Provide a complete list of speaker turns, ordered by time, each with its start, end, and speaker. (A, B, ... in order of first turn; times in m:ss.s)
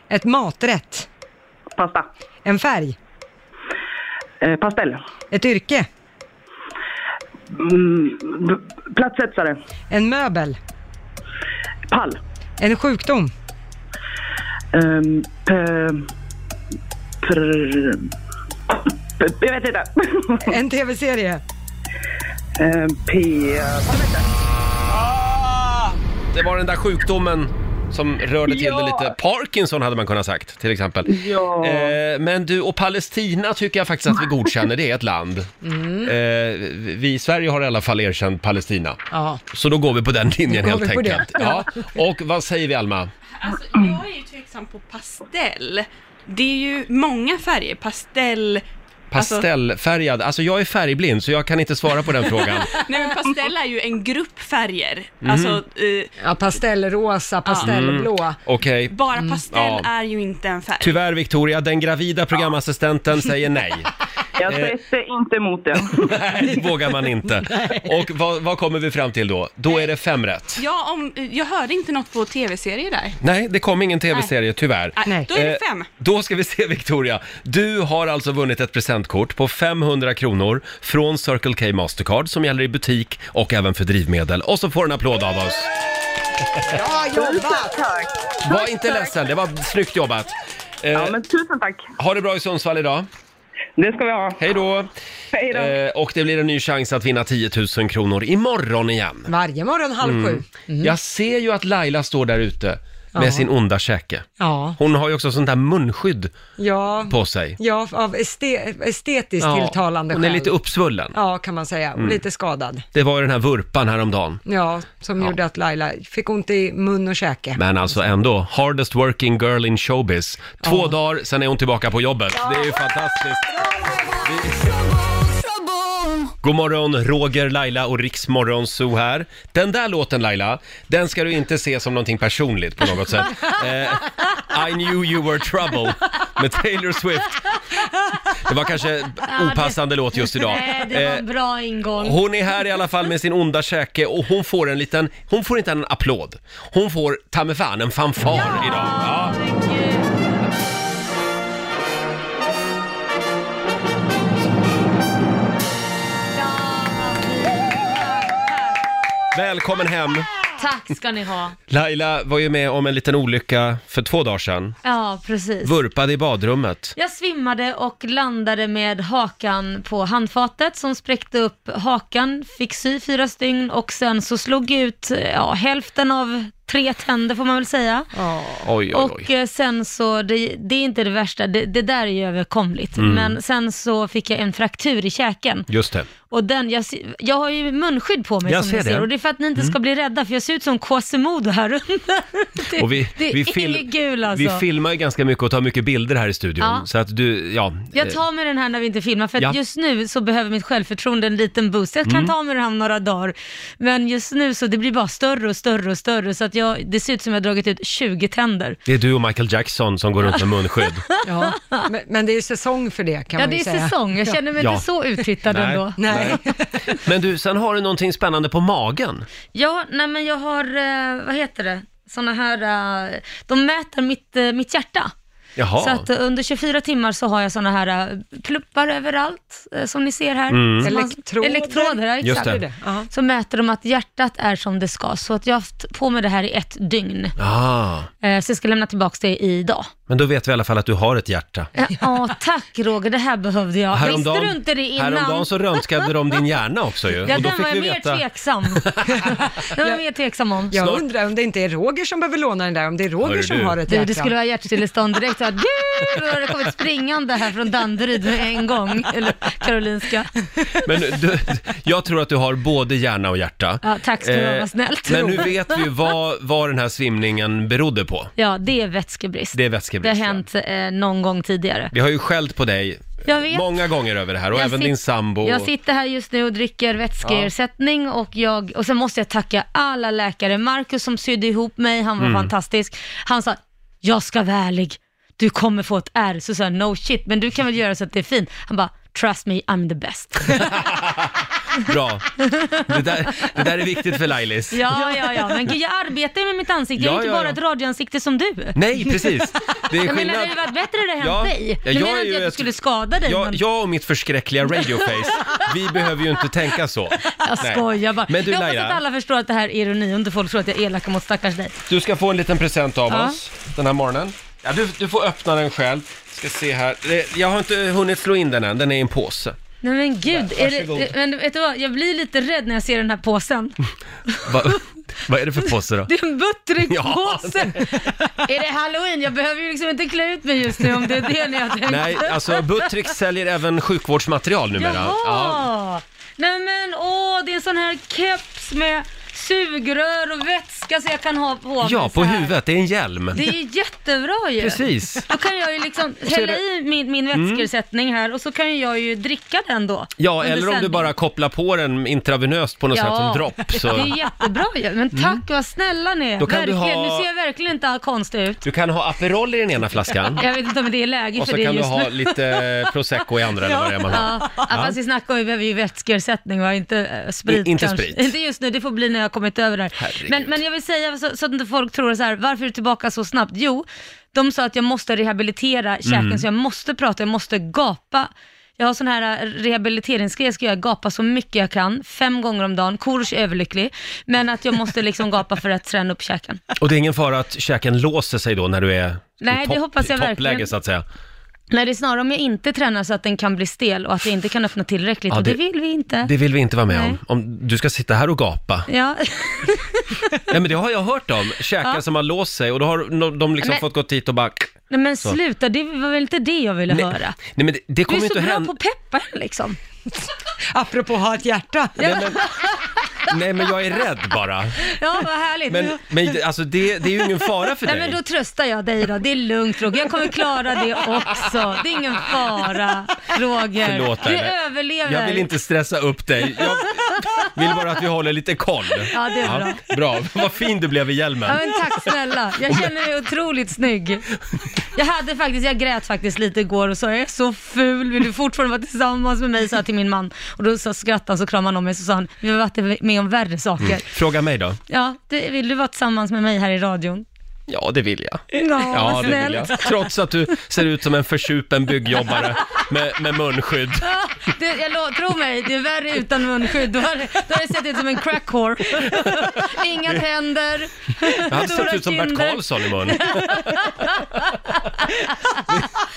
0:00.1-0:01.1 A
0:01.8-0:02.1 B
0:02.4-0:03.0 A
0:04.4-0:05.0 B
0:05.3-0:05.9 A
0:07.5-0:09.6 B
0:09.9-0:10.6 A
0:11.9-0:12.2 B
0:12.6-0:13.3 A
0:14.7-0:16.1 B
0:17.2-0:18.1 B
0:18.7-0:20.5 B
0:20.4-0:21.4 A
0:22.6-0:24.3 B
0:26.3-0:35.5 C
0:28.5-0:29.1 B
0:31.1-0:32.0 B
0:35.6-0:36.1 A
0:36.0-0:39.0 C
0:39.1-0:39.4 A
0:39.5-0:43.1 C
0:40.5-0:41.7 A
0:43.4-0:49.5 D
0:49.1-0:52.7 C
0:52.3-0:56.1 D
0:55.2-0:55.6 C
0:56.2-0:58.4 A
0:57.5-0:57.8 D
0:57.6-0:59.0 C
0:58.9-1:01.0 D
0:59.5-0:59.9 C
1:00.8-1:03.9 C
1:04.4-1:06.1 B
1:06.0-1:10.6 C
1:07.4-1:07.9 A
1:10.6-1:13.2 D
1:13.2-1:25.7 C
1:15.0-1:15.9 D
1:15.0-1:15.3 A
1:26.7-1:27.8 A
1:27.1-1:29.2 B
1:28.4-1:30.3 C
1:30.8-1:31.2 C
1:30.9-1:31.9 B
1:32.0-1:33.1 C
1:33.8-1:34.4 B
1:34.4-1:34.9 C
1:35.3-1:35.8 B
1:35.5-1:39.3 C
1:39.3-1:40.9 A
1:40.0-1:46.4 C
1:43.2-1:43.5 A
1:44.4-1:44.8 A
1:46.6-1:50.5 A
1:47.1-1:47.6 C
1:49.4-1:51.2 C
1:51.1-1:52.8 A
1:52.9-1:54.4 C
1:54.5-1:57.6 A
1:57.6-2:04.7 C
2:00.6-2:00.9 A
2:03.6-2:04.0 A
2:06.4-2:17.4 C
2:18.4-2:21.2 C
2:19.3-2:22.2 E
2:22.0-2:29.4 C
2:28.3-2:30.4 E
2:36.3-2:38.7 E
2:39.3-2:40.3 C
2:40.6-2:41.6 E
2:41.7-2:44.8 C
2:44.8-2:45.8 E
2:45.6-2:47.0 C
2:47.0-2:58.1 E
2:58.2-2:58.7 A
2:58.6-2:59.3 C
2:58.9-3:05.7 E
3:03.0-3:03.4 C
3:05.7-3:06.1 C
3:06.3-3:14.6 E
3:08.5-3:09.8 C
3:12.8-3:18.2 C
3:18.0-3:28.8 E
3:22.0-3:22.3 C
3:28.9-3:31.0 C
3:31.1-3:31.8 E
3:31.2-3:34.4 A
3:33.4-3:36.4 E
3:35.5-3:39.3 C
3:36.0-3:36.8 A
3:39.5-3:45.1 E
3:45.6-3:46.0 C
3:45.8-3:57.4 E
3:50.5-3:50.9 C
3:50.8-3:53.1 A
3:52.2-3:52.6 C
3:57.4-3:58.1 C
3:58.2-3:59.9 E
4:00.1-4:01.7 C
4:01.8-4:06.1 E
4:03.9-4:08.2 C
4:07.2-4:10.8 E
4:08.8-4:09.3 C
4:10.7-4:14.3 A
4:13.2-4:13.8 C
4:13.9-4:20.3 E
4:20.8-4:28.3 C
4:23.8-4:25.9 E
4:28.4-4:31.9 E
4:29.5-4:30.4 C
4:31.9-4:35.7 C
4:33.3-4:33.7 E
4:34.5-4:50.7 E
4:37.2-4:37.5 C
4:42.2-4:42.5 C
4:50.5-4:52.3 C
4:52.4-4:52.9 E
4:52.9-4:54.9 C
4:54.7-4:59.2 E
4:57.0-4:57.6 C
4:58.8-5:00.6 C
4:59.9-5:03.6 E
5:01.2-5:02.7 C
5:03.2-5:09.0 C
5:05.0-5:05.7 E
5:07.2-5:11.8 E
5:11.9-5:19.6 C
5:13.1-5:13.4 E
5:19.8-5:24.8 E
5:20.3-5:21.1 C
5:24.4-5:26.1 C
5:26.1-5:33.0 E
5:26.9-5:27.9 C
5:31.9-5:35.6 C
5:34.8-5:42.6 E
5:41.8-5:43.4 C
5:43.3-5:51.1 E
5:44.6-5:45.3 C
5:46.3-5:46.6 C
5:47.3-5:47.7 C
5:50.2-5:54.1 C
5:52.9-5:58.6 E
5:55.1-5:55.4 C
5:56.4-5:57.3 C
5:58.6-6:00.4 C
6:00.4-6:02.6 E
6:01.4-6:05.0 C
6:04.1-6:26.6 E
6:07.5-6:08.3 C
6:10.0-6:10.6 C
6:16.1-6:16.4 C
6:26.8-6:31.0 C
6:29.4-6:30.7 E
6:31.7-6:36.3 E
6:35.3-6:35.6 C
6:36.2-6:38.9 C
6:36.9-6:37.2 E
6:38.9-6:40.4 E
6:40.5-6:44.7 C
6:44.9-6:47.4 E
6:46.9-6:48.7 C
6:48.1-6:49.8 E
6:50.7-6:52.2 A
6:52.0-6:52.5 C
6:52.0-6:53.1 E
6:53.3-6:54.9 C
6:54.8-6:56.0 E
6:55.7-6:58.2 C
6:57.7-7:05.5 E
7:03.8-7:04.6 C
7:05.1-7:12.1 C
7:09.1-7:09.9 E
7:11.5-7:14.3 E
7:15.0-7:24.1 E
7:23.8-7:24.8 C
7:24.9-7:27.2 E
7:27.7-7:34.1 C
7:28.5-7:30.0 E
7:34.0-7:45.6 E
7:39.1-7:40.2 C
7:41.4-7:44.4 C